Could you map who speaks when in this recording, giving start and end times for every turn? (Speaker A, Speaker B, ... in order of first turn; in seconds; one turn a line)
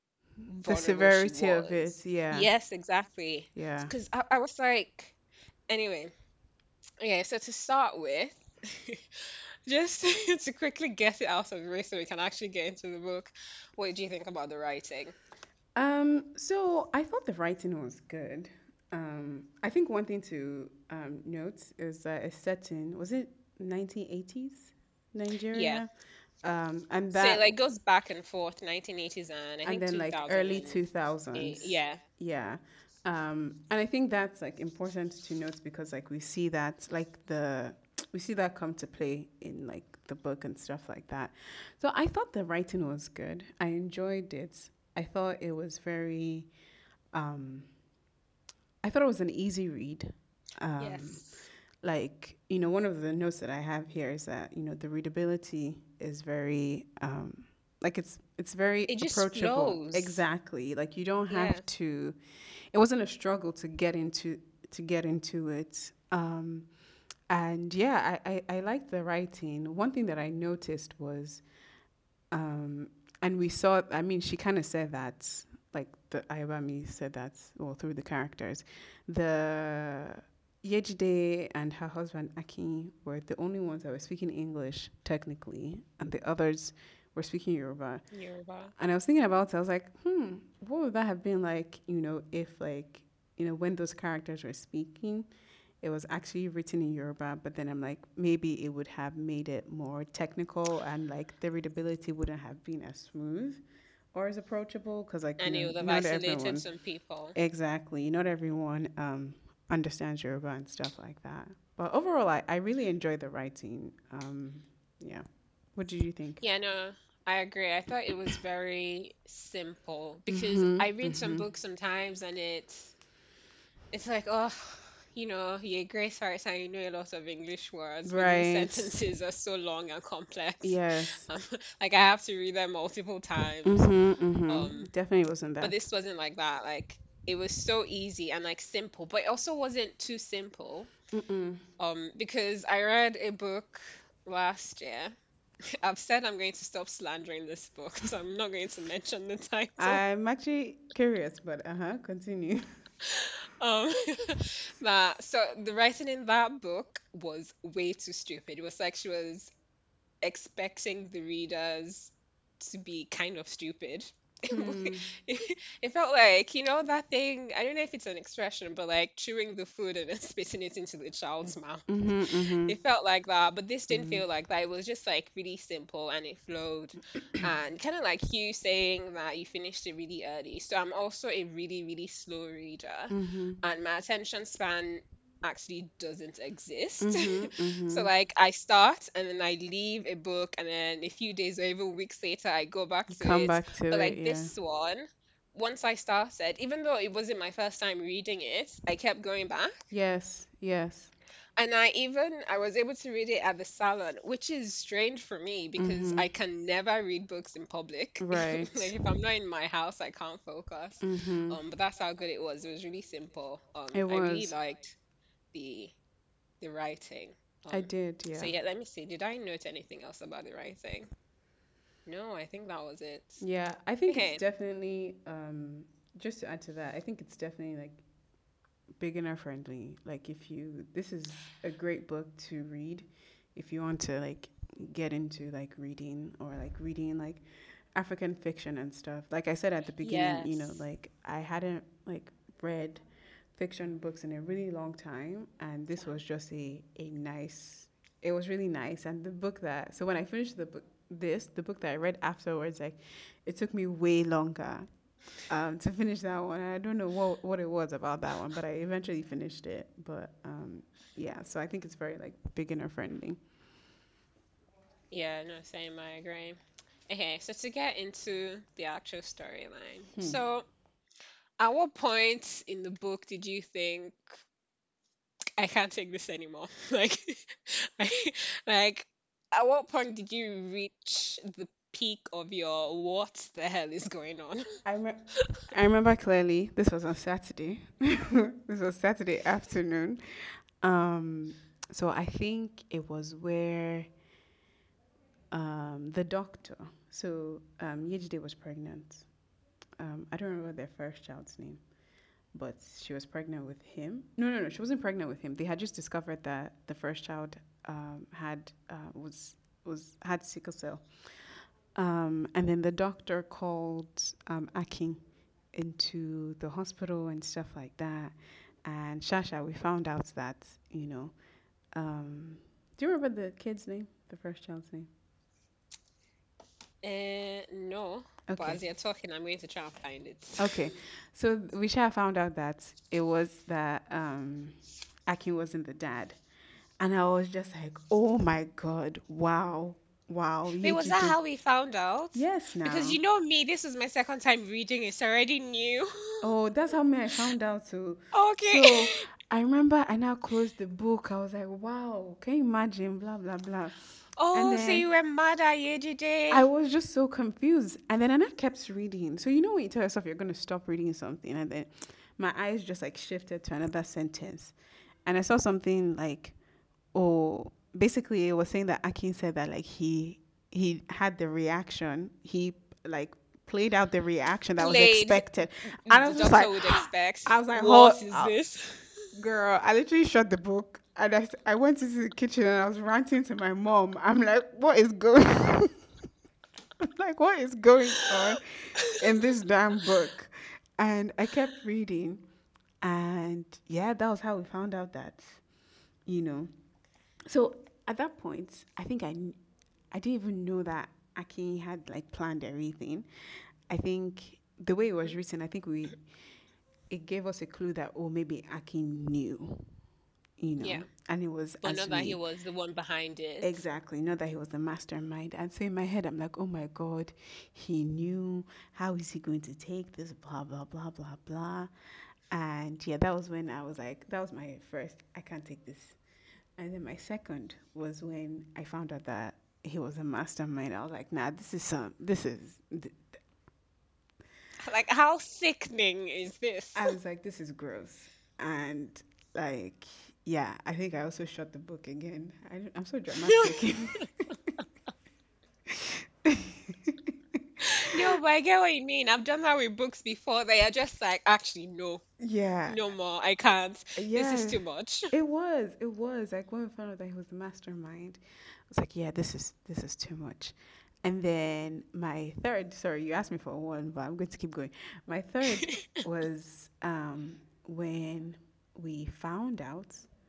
Speaker A: 0.5-5.2
Speaker B: 0.6-2.5
Speaker B: 3.5-3.9
Speaker A: 5.7-6.1
Speaker A: 7.0-15.2
Speaker B: 15.8-25.9
Speaker A: 25.5-25.8
Speaker B: 26.4-27.6
Speaker A: 27.1-32.0
Speaker B: 29.6-46.5
Speaker B: 47.1-47.7
Speaker B: 48.8-51.2
Speaker A: 50.8-51.4
Speaker B: 51.8-62.2
Speaker A: 58.9-60.2
Speaker A: 61.3-61.7
Speaker B: 62.7-66.7
Speaker B: 67.3-71.4
Speaker B: 72.3-88.0
Speaker A: 88.1-88.7
Speaker B: 88.8-95.3
Speaker B: 95.8-103.6
Speaker B: 104.1-106.7
Speaker A: 105.4-107.4
Speaker B: 107.3-116.4
Speaker A: 116.4-122.9
Speaker B: 120.3-121.5
Speaker A: 123.9-134.9
Speaker B: 128.1-129.0
Speaker B: 130.6-131.3
Speaker B: 133.7-135.8
Speaker A: 135.6-140.9
Speaker B: 141.1-141.6
Speaker A: 141.8-145.1
Speaker A: 145.8-150.0
Speaker B: 149.8-152.7
Speaker A: 153.0-159.5
Speaker A: 160.2-199.8
Speaker B: 164.5-165.1
Speaker B: 171.9-172.8
Speaker B: 173.9-174.2
Speaker B: 183.1-183.6
Speaker B: 187.0-188.1
Speaker B: 193.1-194.5
Speaker B: 199.9-201.1
Speaker A: 201.6-215.0
Speaker B: 205.8-206.3
Speaker B: 208.2-208.9
Speaker B: 211.0-211.6
Speaker B: 213.9-214.6
Speaker A: 215.5-215.9
Speaker A: 216.6-221.1
Speaker B: 217.7-218.5
Speaker A: 222.1-223.4
Speaker B: 223.4-228.0
Speaker A: 224.1-224.4
Speaker B: 229.0-237.4
Speaker B: 237.9-243.0
Speaker A: 240.0-240.7
Speaker B: 243.6-254.9
Speaker B: 255.5-263.4
Speaker A: 265.1-270.6
Speaker B: 270.1-270.4
Speaker A: 271.6-274.2
Speaker A: 275.6-284.6
Speaker B: 284.9-290.2
Speaker B: 290.8-294.1
Speaker B: 295.5-299.3
Speaker B: 300.0-301.8
Speaker B: 302.5-315.2
Speaker B: 315.7-321.4
Speaker B: 321.9-325.1
Speaker A: 327.0-330.8
Speaker B: 328.5-328.8
Speaker B: 330.6-336.4
Speaker B: 337.0-341.4
Speaker A: 340.8-346.5
Speaker B: 342.3-343.2
Speaker B: 346.4-354.0
Speaker A: 348.3-349.2
Speaker A: 354.4-356.7
Speaker B: 354.5-355.1
Speaker B: 356.5-366.6
Speaker B: 367.1-378.6
Speaker A: 374.8-379.3
Speaker B: 379.3-386.0
Speaker B: 387.0-392.4
Speaker B: 393.0-395.6
Speaker B: 396.3-396.7
Speaker B: 397.5-399.6
Speaker B: 400.1-403.3
Speaker B: 403.9-406.2
Speaker B: 407.1-409.9
Speaker B: 410.6-412.4
Speaker A: 410.8-411.1
Speaker A: 411.8-413.8
Speaker B: 413.6-421.9
Speaker B: 422.5-426.2
Speaker B: 426.8-433.3
Speaker A: 434.8-437.1
Speaker B: 436.9-444.3
Speaker A: 443.5-443.8
Speaker B: 445.9-448.2
Speaker A: 447.8-452.2
Speaker B: 452.4-453.0
Speaker A: 452.9-455.3
Speaker B: 454.2-470.3
Speaker A: 465.8-466.1